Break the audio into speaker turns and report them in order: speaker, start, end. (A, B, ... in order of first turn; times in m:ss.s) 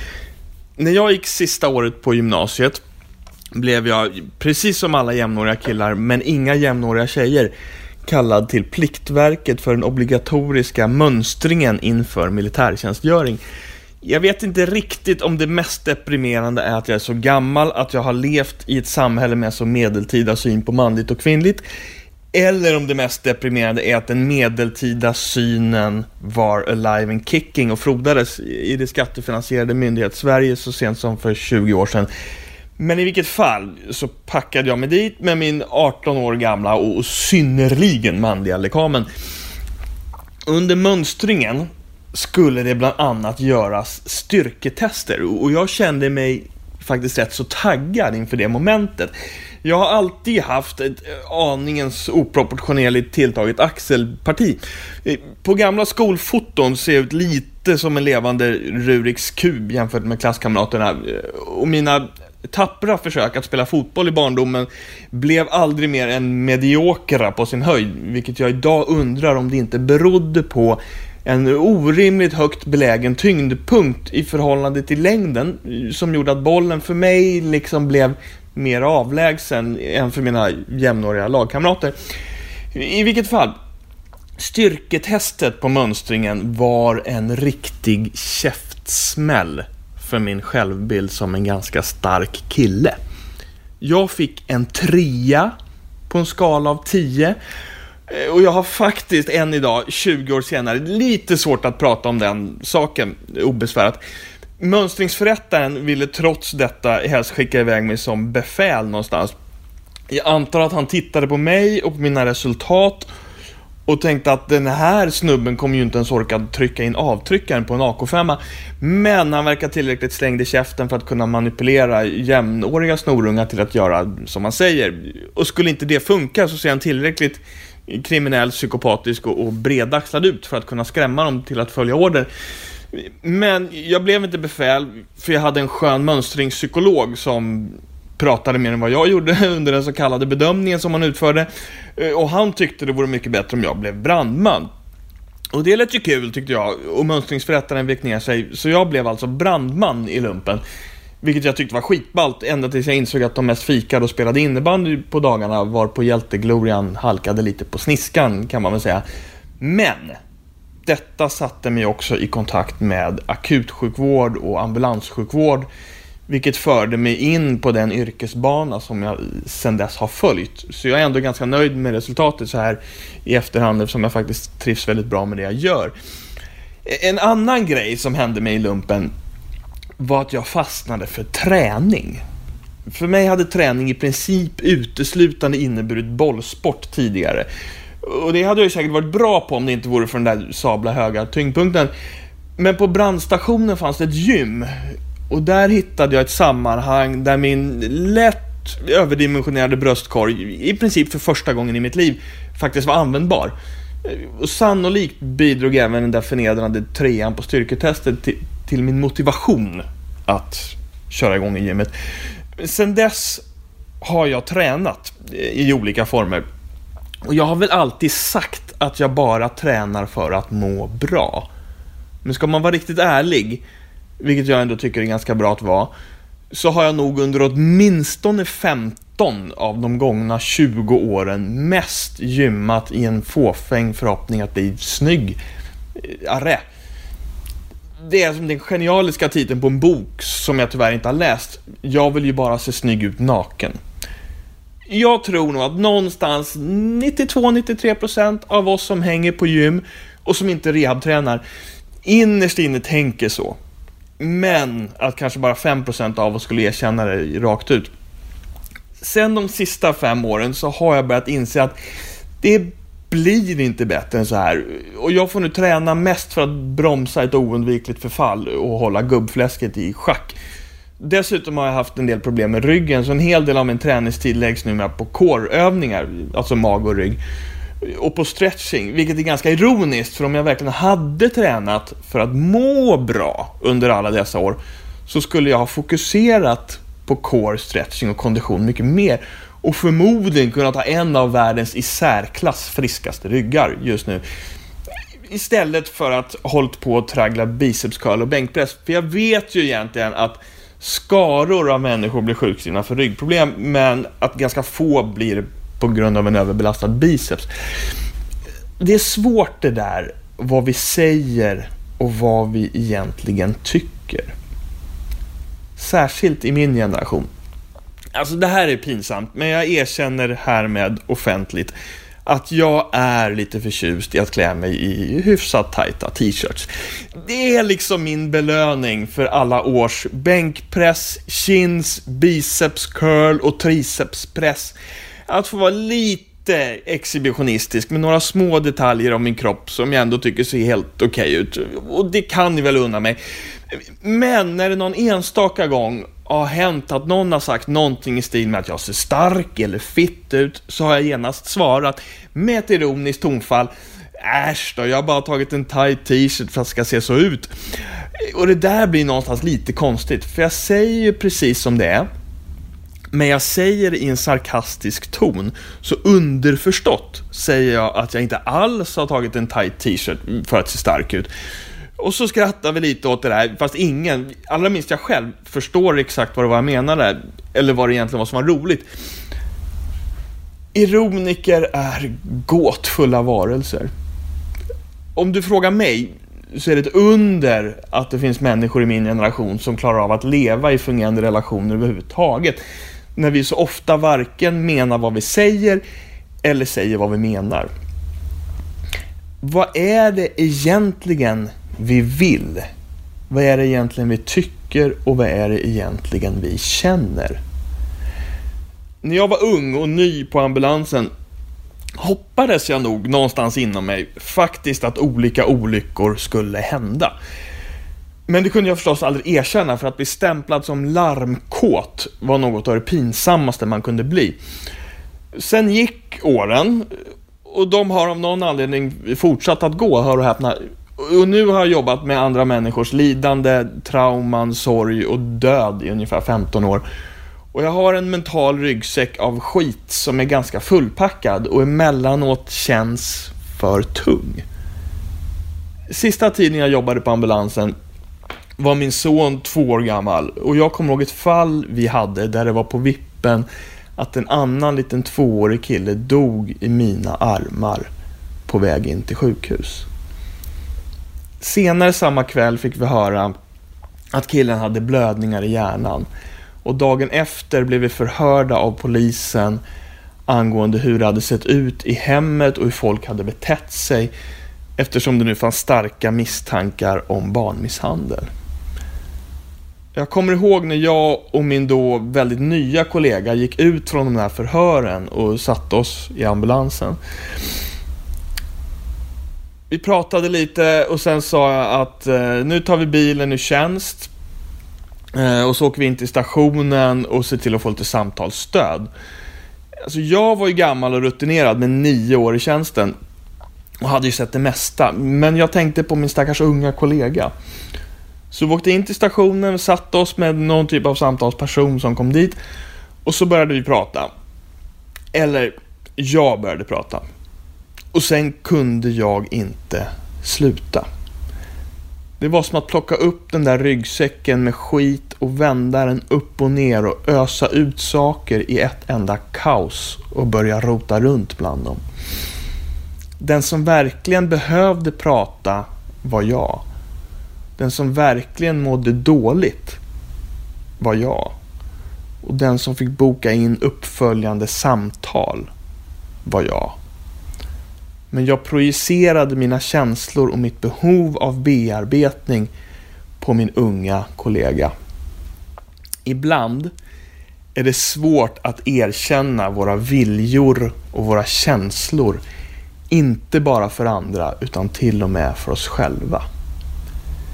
0:00.8-0:02.8 A
0:03.5-0:07.5 A
0:08.1-0:13.4 A
0:14.0-0:21.6 A
0:22.3-0:32.1 A
0:32.8-0:39.1 A
0:40.5-0:49.1 A
0:49.6-1:22.0 A
1:22.7-1:23.5 A
1:24.4-1:33.0 A
1:33.8-1:35.5 A
1:36.1-1:37.4 A
1:38.1-1:44.0 A
1:44.6-1:49.3 A
1:50.1-1:53.1 A
1:53.9-2:12.3 A
2:12.9-2:24.7 A
2:25.5-2:30.6 A
2:31.2-2:39.0 A
2:39.6-2:40.2 A
2:40.9-2:45.7 A
2:46.3-2:55.9 A
2:56.8-2:59.1 A
3:00.0-3:02.2 A
3:02.9-3:07.5 A
3:08.0-3:11.9 A
3:12.6-3:23.5 A
3:24.0-3:31.9 A
3:32.6-3:33.4 A
3:34.0-3:36.4 A
3:37.3-3:41.5 A
3:42.2-3:43.6 A
3:44.2-3:45.9 A
3:46.5-3:55.4 A
3:56.0-3:56.7 A
3:58.0-4:03.8 A
4:04.9-4:11.4 A
4:12.0-4:13.6 A
4:14.2-4:17.9 A
4:19.0-4:21.8 A
4:22.4-4:30.4 A
4:31.0-4:37.2 A
4:37.8-4:54.2 A
4:55.3-5:07.5 A
5:08.8-5:14.3 A
5:15.8-5:17.3 A
5:18.2-5:21.8 A
5:22.3-5:34.8 A
5:35.3-5:43.2 A
5:43.7-5:57.5 A
5:58.2-6:02.1 A
6:03.1-6:11.3 A
6:12.0-6:18.9 A
6:20.7-6:23.9 A
6:25.2-6:32.6 A
6:33.2-6:35.8 A
6:36.4-6:37.7 A
6:39.4-6:42.7 A
6:43.3-6:47.4 A
6:49.0-6:51.1 A
6:52.0-6:57.1 A
6:58.3-7:04.4 A
7:05.3-7:06.9 A
7:07.4-7:16.8 A
7:17.5-7:24.4 A
7:25.9-7:27.7 A
7:28.6-7:33.5 A
7:34.0-7:37.9 A
7:38.5-7:39.9 A
7:41.4-7:43.3 A
7:44.1-7:46.1 A
7:46.6-7:49.6 A
7:50.3-7:54.1 A
7:54.8-7:58.3 A
8:00.0-8:07.0 A
8:09.7-8:14.1 A
8:15.1-8:18.9 A
8:19.8-8:23.0 A
8:23.8-8:27.3 A
8:28.3-8:32.4 A
8:33.0-8:34.1 A
8:35.1-8:37.0 A
8:37.9-8:40.9 A
8:42.2-8:51.8 A
8:53.2-8:56.6 A
8:57.6-8:59.8 A
9:00.8-9:01.4 A
9:02.2-9:05.5 A
9:06.2-9:06.8 A
9:08.1-9:12.5 A
9:13.2-9:14.7 A
9:16.0-9:16.7 A
9:17.6-9:22.2 A
9:22.9-9:26.2 A